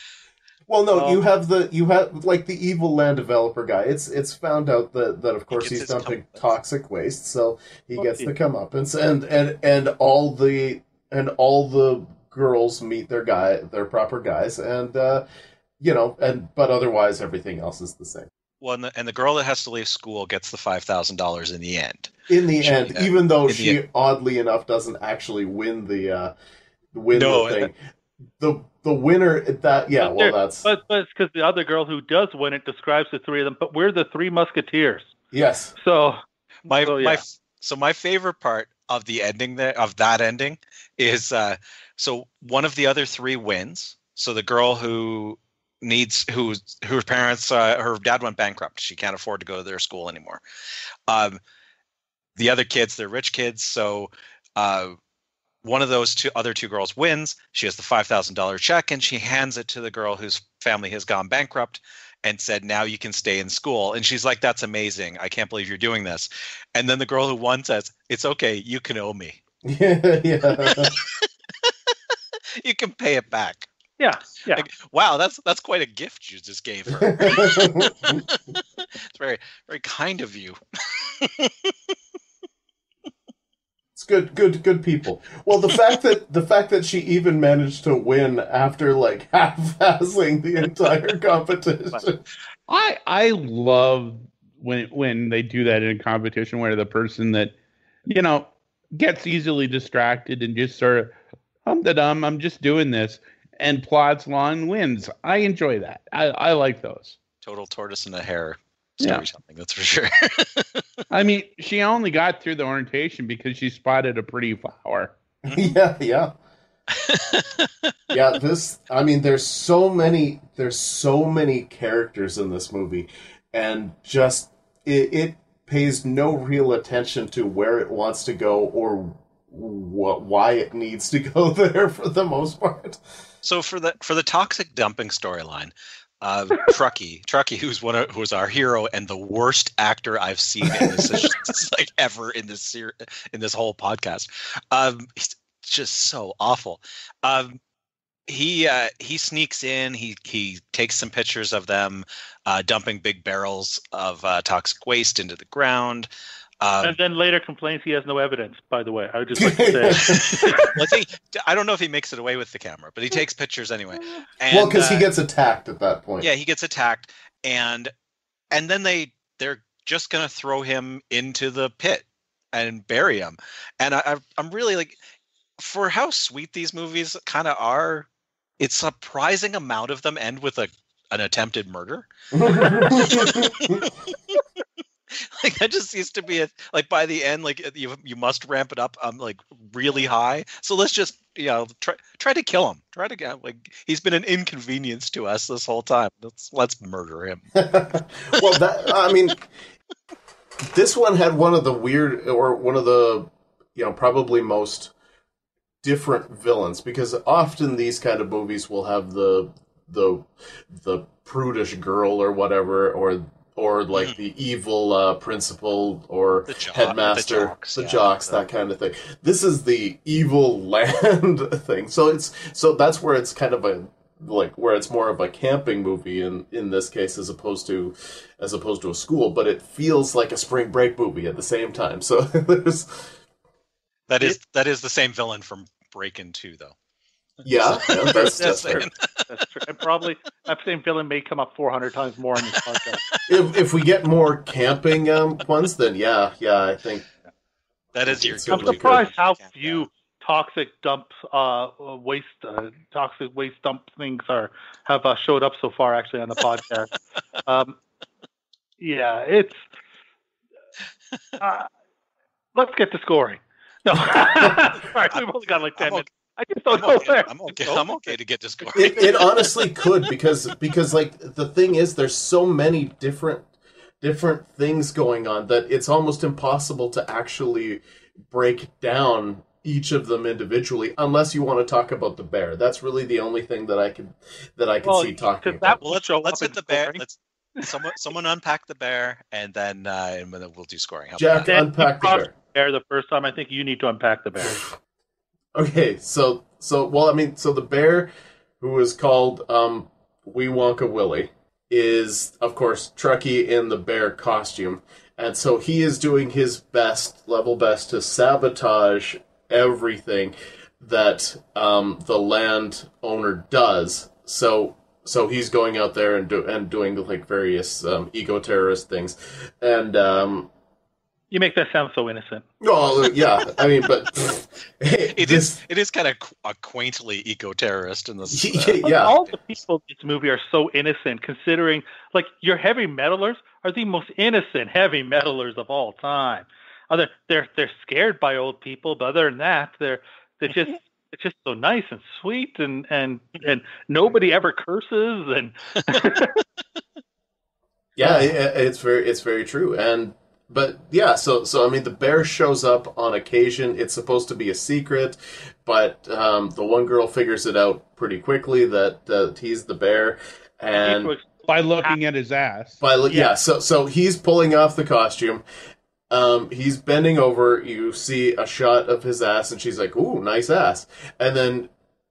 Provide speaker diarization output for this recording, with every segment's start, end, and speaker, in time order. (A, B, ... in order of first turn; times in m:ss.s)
0:00.7-0:15.2 A
0:00.9-0:01.2 B
0:05.5-0:06.5 C
0:08.0-0:08.3 B
0:15.8-0:18.3 A
0:18.6-0:23.8 C
0:22.3-0:26.3 A
0:26.9-0:27.7 A
0:27.1-0:27.7 C
0:28.4-0:30.7 A
0:30.0-0:35.1 B
0:35.3-0:35.7 A
0:35.8-0:37.2 B
0:36.7-0:50.4 C
0:51.1-0:51.4 C
0:52.4-0:55.0 C
0:55.6-1:09.4 C
1:09.6-1:11.0 A
1:10.7-1:11.7 C
1:12.6-1:13.7 C
1:14.0-1:14.6 B
1:14.5-1:18.6 C
1:17.0-1:18.2 A
1:19.1-1:20.6 C
1:21.2-1:21.7 C
1:23.9-1:32.2 A
1:32.7-1:37.5 D
1:38.0-1:41.1 D
1:41.6-1:47.2 D
1:47.4-1:50.8 C
1:51.1-1:55.1 D
1:55.4-1:56.3 A
1:57.0-1:57.6 C
1:58.1-2:13.0 A
2:13.4-2:27.6 C
2:20.6-2:21.3 A
2:28.3-2:36.1 C
2:36.6-2:37.0 C
2:36.8-2:40.7 B
2:39.4-2:40.7 A
2:40.0-2:45.1 C
2:44.5-2:46.3 A
2:46.2-2:47.9 C
2:48.5-2:55.0 C
2:55.6-2:58.1 C
2:58.6-3:02.1 C
3:02.3-3:03.8 A
3:02.6-3:04.4 C
3:05.1-3:17.4 C
3:17.6-3:19.4 A
3:20.7-3:24.9 A
3:25.8-3:53.1 A
3:36.5-3:38.4 C
3:54.1-3:56.7 C
3:57.4-3:58.9 A
3:57.4-3:59.2 C
3:58.1-4:03.0 B
4:02.5-4:03.2 C
4:03.3-4:07.0 A
4:07.9-4:09.9 C
4:08.0-4:09.1 A
4:08.5-4:16.9 B
4:17.5-4:17.8 B
4:18.8-4:19.6 B
4:21.4-4:21.7 B
4:22.5-4:28.1 B
4:25.8-4:26.1 C
4:26.7-4:29.5 C
4:28.8-4:33.5 A
4:34.0-4:45.8 A
4:44.8-4:47.0 B
4:45.8-4:51.5 C
4:51.2-4:52.3 A
4:51.5-4:54.6 B
4:55.5-5:20.5 A
5:21.3-5:22.4 B
5:22.6-5:25.6 A
5:25.1-5:29.1 C
5:28.3-5:29.1 A
5:28.8-5:46.4 B
5:48.0-6:01.1 A
6:00.8-6:02.0 B
6:01.5-6:02.8 D
6:02.8-6:05.4 A
6:06.1-6:11.7 A